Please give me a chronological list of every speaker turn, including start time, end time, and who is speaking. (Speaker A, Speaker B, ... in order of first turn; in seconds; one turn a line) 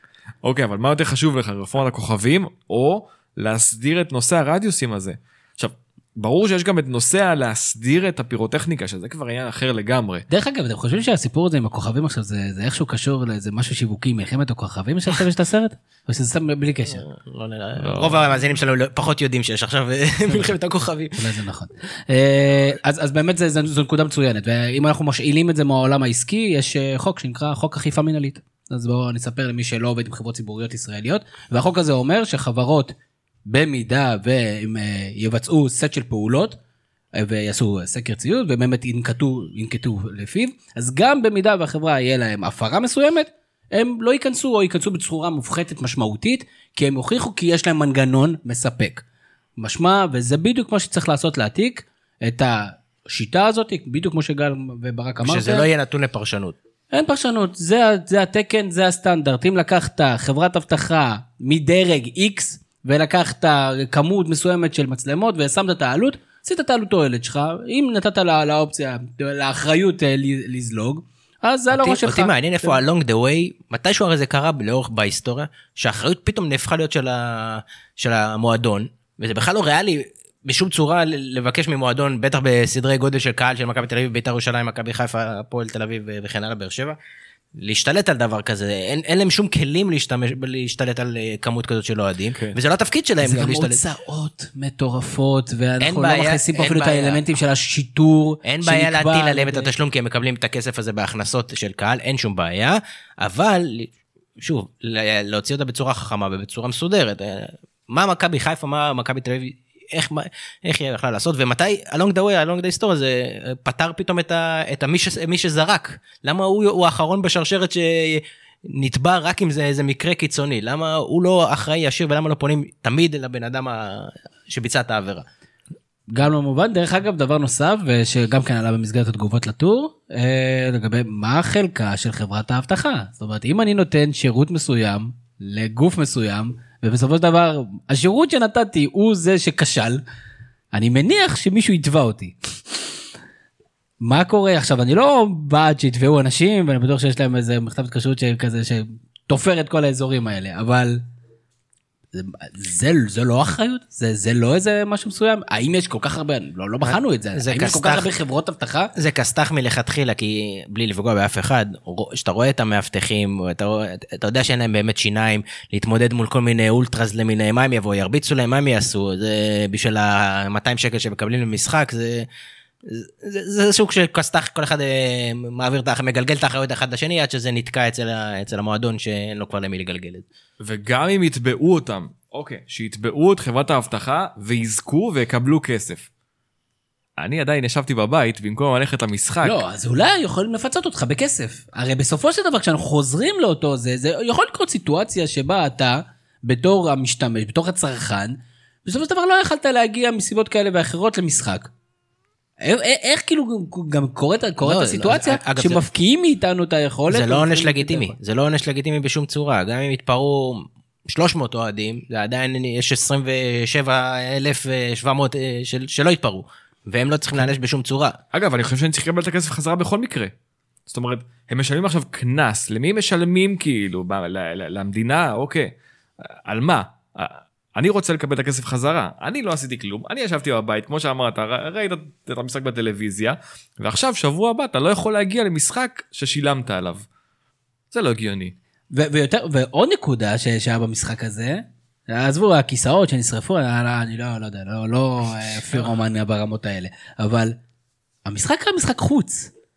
Speaker A: 0.4-10.2
Speaker B: 10.3-17.1
Speaker C: 16.9-21.3
Speaker A: 17.9-18.2
Speaker B: 21.2-32.9
Speaker B: 33.5-36.6
Speaker B: 37.1-49.0
Speaker B: 49.6-55.6
Speaker C: 55.2-56.5
Speaker B: 56.9-72.7
Speaker C: 71.7-87.0
Speaker C: 87.5-93.8
Speaker B: 93.2-99.7
Speaker C: 95.8-97.2
Speaker C: 98.4-125.2
Speaker B: 126.1-140.0
Speaker B: 140.7-142.3
Speaker B: 144.0-151.0
Speaker B: 152.1-158.9
Speaker C: 156.8-158.1
Speaker C: 158.9-172.3
Speaker C: 172.8-180.2
Speaker A: 180.6-186.1
Speaker A: 187.2-189.6
Speaker B: 189.4-201.7
Speaker B: 202.6-208.1
Speaker C: 204.6-205.8
Speaker C: 207.1-218.2
Speaker A: 218.3-220.3
Speaker A: 220.9-237.0
Speaker A: 237.9-238.5
Speaker B: 238.9-247.6
Speaker B: 248.2-249.5